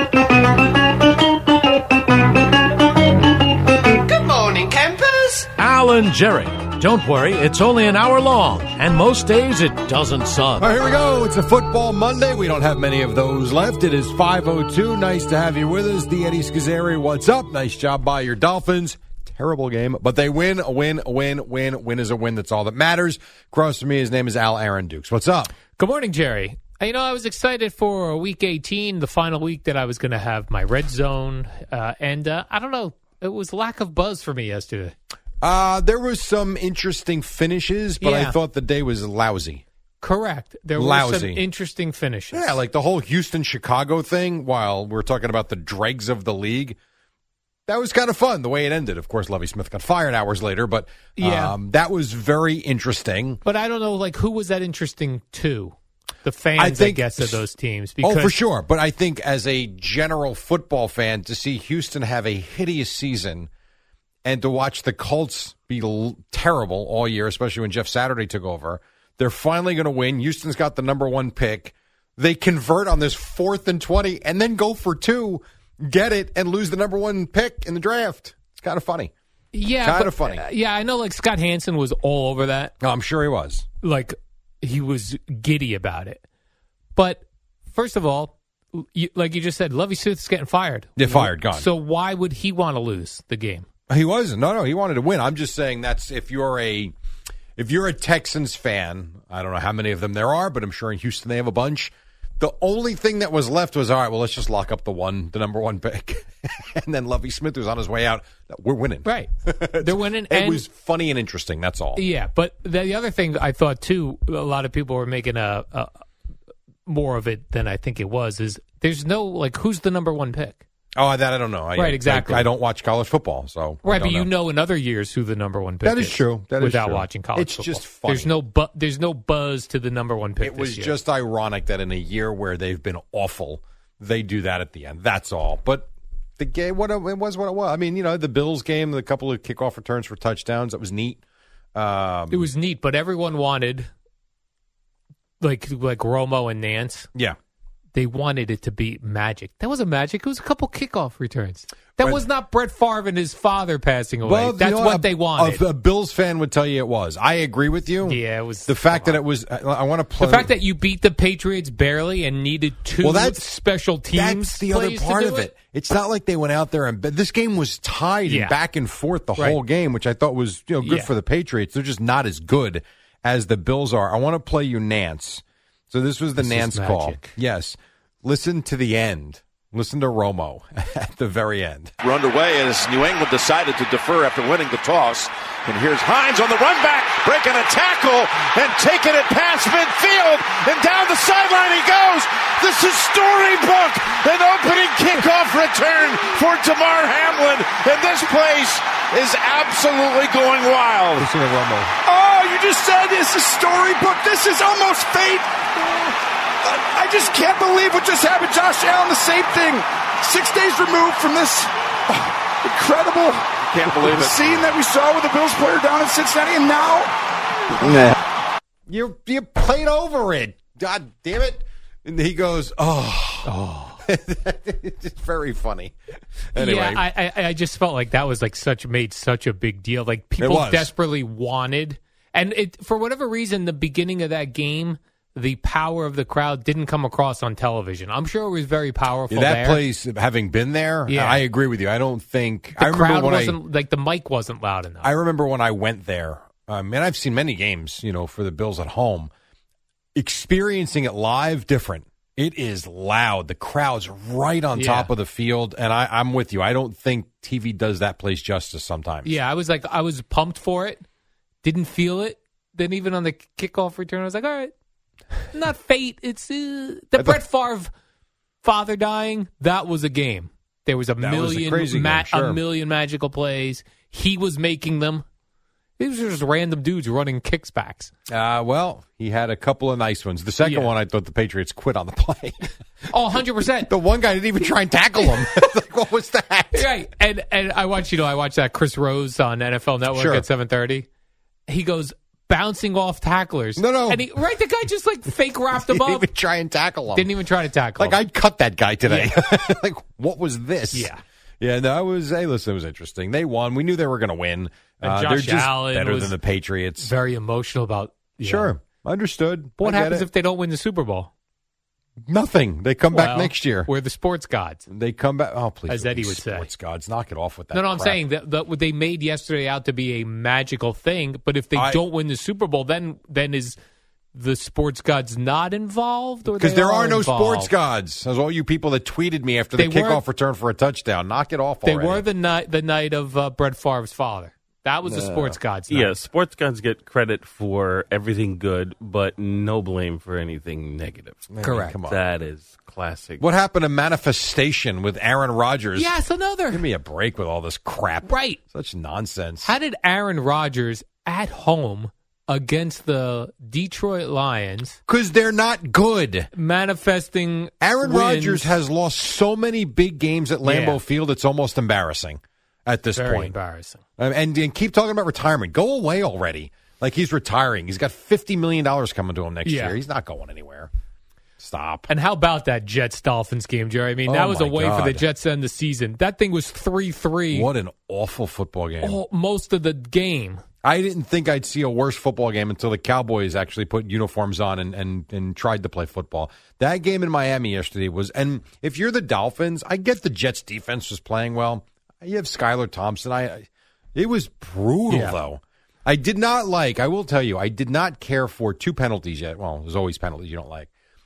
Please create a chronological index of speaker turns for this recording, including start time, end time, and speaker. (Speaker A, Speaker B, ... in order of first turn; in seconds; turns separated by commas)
Speaker A: 5.5-10.7, Speaker B: 10.6-25.5, Speaker C: 25.8-35.0, Speaker B: 35.4-39.6, Speaker C: 38.0-38.4, Speaker C: 40.0-42.6, Speaker B: 40.8-41.4, Speaker B: 42.3-46.8, Speaker B: 47.7-53.4, Speaker C: 51.2-51.6, Speaker C: 53.5-58.4, Speaker B: 56.6-57.5, Speaker B: 58.0-63.5, Speaker B: 64.2-79.1, Speaker C: 79.5-82.7, Speaker B: 79.8-80.4, Speaker B: 82.8-83.7, Speaker C: 83.8-86.2, Speaker C: 87.0-93.7, Speaker B: 91.0-91.7, Speaker B: 93.9-96.9, Speaker B: 97.6-112.0, Speaker C: 109.0-110.6, Speaker C: 112.0-116.0, Speaker C: 116.9-120.6, Speaker B: 121.0-124.3, Speaker C: 121.8-122.5, Speaker C: 123.8-131.0, Speaker B: 125.8-128.3, Speaker B: 130.4-141.2, Speaker B: 141.8-142.5, Speaker C: 142.3-143.9, Speaker C: 145.4-147.1, Speaker C: 147.9-155.6, Speaker B: 154.2-160.5, Speaker C: 158.0-159.2, Speaker C: 160.2-165.5, Speaker B: 163.0-163.5, Speaker B: 164.1-181.9, Speaker C: 168.3-168.6, Speaker C: 170.8-171.1, Speaker C: 176.4-177.3, Speaker D: 182.0-201.3, Speaker B: 201.2-201.9, Speaker D: 202.1-217.1, Speaker B: 213.8-214.3, Speaker B: 218.9-226.0, Speaker C: 223.5-224.0, Speaker B: 226.5-227.1, Speaker C: 226.6-239.8, Speaker B: 230.4-230.9, Speaker B: 239.3-243.6, Speaker C: 241.1-241.4, Speaker C: 242.8-245.1, Speaker B: 245.0-249.3, Speaker B: 250.2-259.3, Speaker C: 254.8-255.1, Speaker C: 259.2-261.0, Speaker C: 261.6-264.7, Speaker C: 265.5-267.9, Speaker C: 268.6-275.2, Speaker B: 271.2-272.6, Speaker C: 276.0-278.1, Speaker B: 278.3-282.7, Speaker C: 280.6-280.9, Speaker C: 283.1-283.9, Speaker B: 283.9-286.9, Speaker C: 286.7-291.1, Speaker B: 290.1-290.4, Speaker C: 291.7-296.3, Speaker B: 293.8-294.3, Speaker B: 295.8-297.3, Speaker C: 297.1-298.2, Speaker B: 298.0-307.1, Speaker C: 299.1-299.4, Speaker C: 300.9-301.2, Speaker C: 305.0-306.4, Speaker C: 307.0-308.8, Speaker B: 308.4-310.3, Speaker C: 309.8-311.3, Speaker B: 312.3-313.9, Speaker C: 313.1-314.8, Speaker B: 314.9-318.2, Speaker C: 315.9-316.7, Speaker C: 317.7-323.8, Speaker B: 321.8-322.0, Speaker C: 324.3-327.7, Speaker B: 326.6-332.2, Speaker C: 329.8-330.2, Speaker C: 331.8-336.2, Speaker E: 335.0-343.4, Speaker B: 341.5-342.2, Speaker C: 341.6-342.0, Speaker B: 343.4-346.2, Speaker C: 346.0-346.9, Speaker B: 346.7-349.7, Speaker C: 348.2-348.6, Speaker C: 349.6-355.0, Speaker B: 355.1-356.5, Speaker C: 356.6-358.8, Speaker B: 357.8-363.5, Speaker C: 360.6-361.0, Speaker C: 363.1-364.0, Speaker B: 364.2-370.9, Speaker C: 369.6-370.0, Speaker B: 371.6-372.1, Speaker C: 372.1-377.7, Speaker B: 374.3-375.3, Speaker B: 377.5-379.2, Speaker C: 379.0-380.6, Speaker B: 380.8-400.9, Speaker C: 395.1-395.4